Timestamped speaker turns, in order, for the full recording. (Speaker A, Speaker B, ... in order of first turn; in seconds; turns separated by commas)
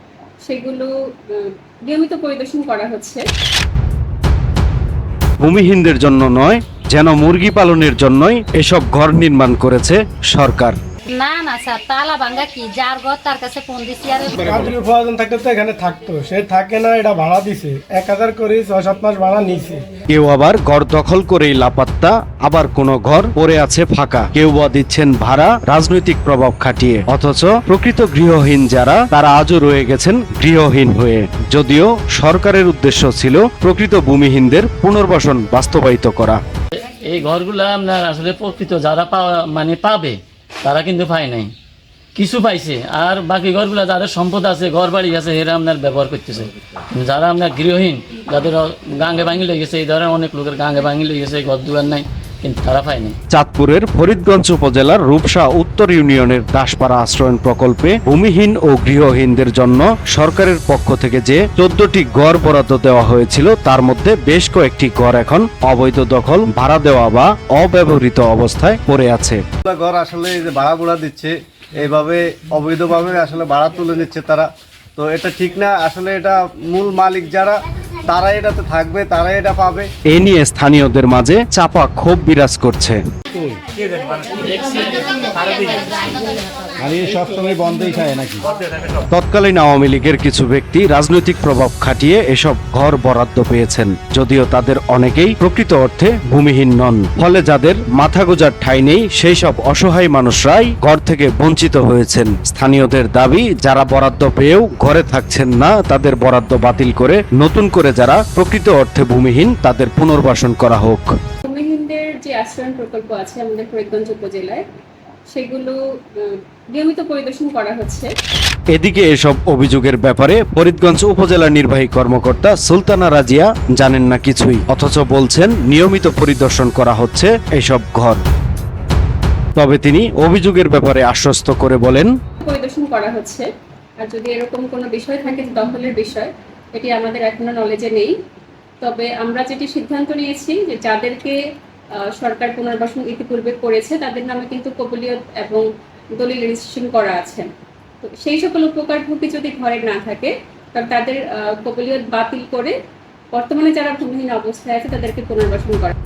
Speaker A: 0.5-3.2, Speaker B: 5.4-10.8, Speaker C: 11.1-14.5, Speaker D: 14.4-19.8, Speaker B: 20.1-36.4, Speaker E: 36.7-41.5, Speaker E: 42.1-53.2, Speaker B: 53.3-69.4, Speaker F: 69.6-79.9, Speaker B: 80.1-83.0, Speaker B: 89.1-111.1, Speaker A: 111.5-114.6, Speaker A: 115.3-118.1, Speaker B: 118.7-128.2, Speaker B: 129.6-132.1, Speaker A: 132.4-133.5, Speaker A: 134.0-138.1, Speaker A: 138.8-141.4, Speaker A: 142.2-147.5, Speaker A: 148.0-152.7, Speaker A: 153.3-155.9